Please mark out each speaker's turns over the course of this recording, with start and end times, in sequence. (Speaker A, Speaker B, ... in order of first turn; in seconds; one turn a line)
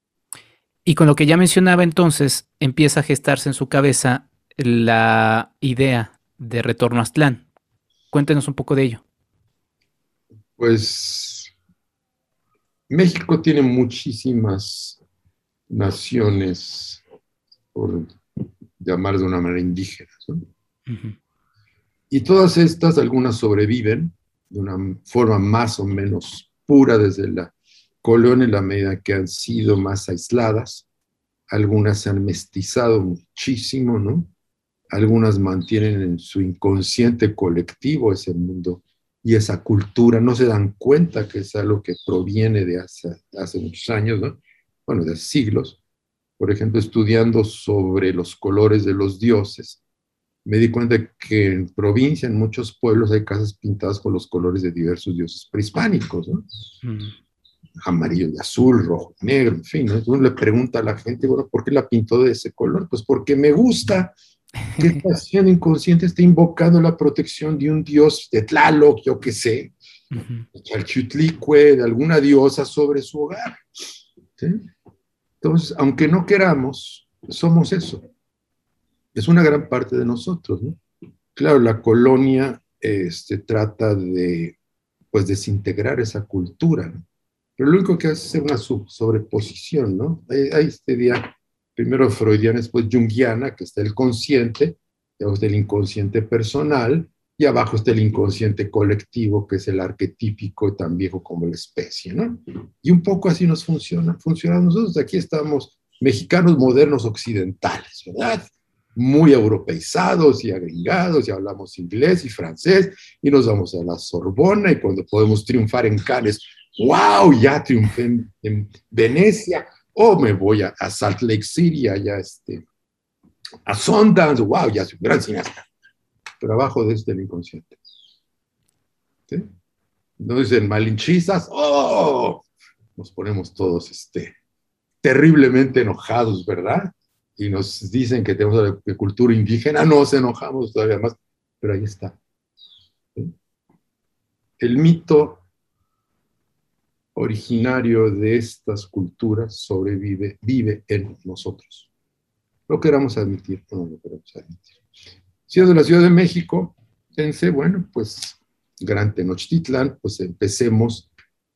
Speaker A: 0.9-7.4
Speaker A: 8.1-9.0
Speaker B: 10.6-11.5
Speaker B: 12.9-15.0
Speaker B: 15.7-17.0
Speaker B: 17.7-18.2
Speaker B: 18.8-20.4
Speaker A: 20.9-21.1
Speaker B: 22.1-30.9
Speaker B: 31.5-34.3
Speaker B: 34.9-45.8
Speaker B: 46.4-49.8
Speaker B: 50.5-56.5
Speaker A: 56.8-57.1
Speaker B: 57.8-64.1
Speaker B: 64.8-69.7
Speaker A: 70.1-70.5
Speaker B: 70.5-73.6
Speaker B: 74.4-74.7
Speaker B: 75.4-78.1
Speaker B: 79.2-80.8
Speaker B: 81.3-84.6
Speaker B: 85.1-87.0
Speaker B: 87.6-122.7
Speaker B: 123.7-125.7
Speaker B: 126.4-127.8
Speaker B: 130.2-134.4
Speaker B: 135.0-142.2
Speaker B: 144.6-145.4
Speaker B: 147.2-151.9
Speaker B: 152.7-154.7
Speaker B: 155.5-161.1